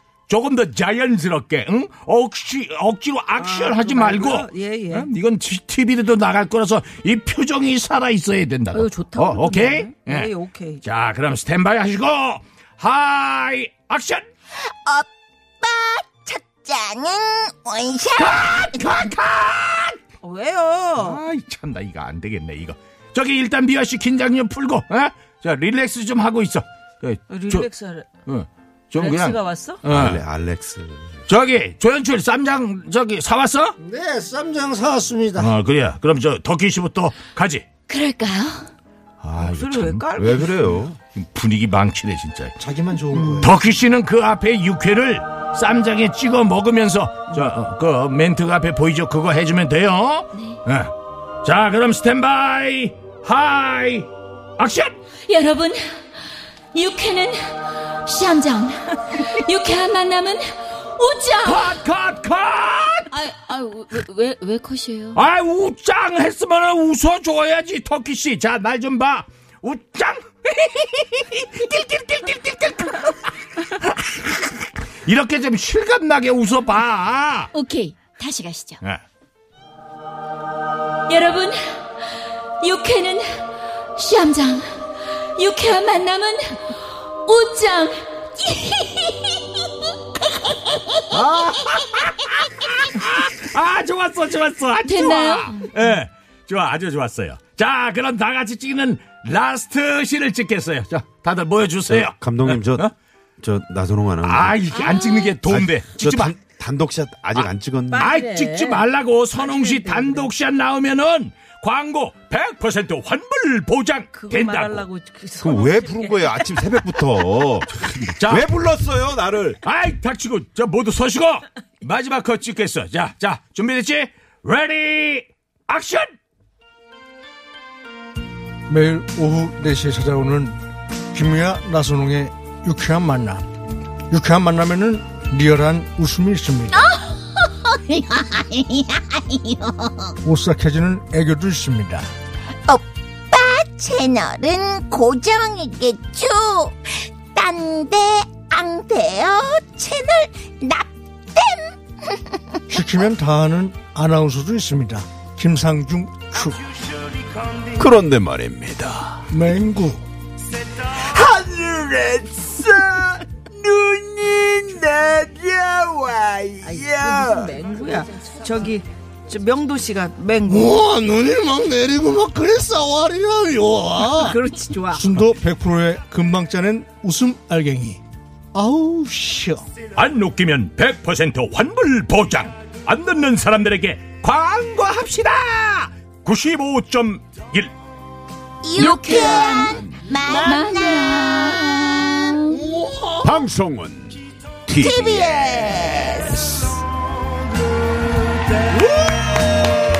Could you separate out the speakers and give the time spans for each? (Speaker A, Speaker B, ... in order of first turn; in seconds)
Speaker A: 0.3-10.3, 10.8-14.3, 18.1-20.0, 21.0-27.7, 28.2-30.2, 31.3-33.7, 35.4-37.7, 39.2-40.0, 41.1-42.5, 43.4-54.9, 61.4-63.1, 65.1-77.5, 91.1-102.9, 104.2-106.3, 107.3-114.8, 118.1-118.5, 119.6-126.1, 179.9-187.7
Speaker B: 3.4-5.1, 8.7-10.8, 20.2-21.2, 27.3-28.1, 29.0-29.8, 39.4-40.5, 43.1-43.5, 107.9-110.3, 114.1-116.7, 166.6-170.8, 174.0-175.1
Speaker C: 14.5-15.1, 15.6-19.1, 136.7-140.1, 142.7-152.7, 188.6-192.5, 194.8-196.7
Speaker D: 29.9-31.2, 40.1-41.0, 101.9-102.9, 103.4-104.6, 105.5-108.1, 115.4-119.6, 157.7-159.3, 160.7-167.6, 193.2-196.0
Speaker E: 33.8-35.5, 42.6-43.6, 128.7-130.5, 131.1-133.4, 134.1-136.8, 140.2-142.1, 152.7-156.6, 159.3-160.0, 170.5-174.4, 174.9-178.0, 178.5-179.6
Speaker F: 37.9-38.7, 55.2-55.9, 56.7-61.8, 63.1-65.2, 77.5-78.8, 81.1-84.7, 85.3-91.0, 94.8-95.7, 104.7-105.4, 188.8-192.9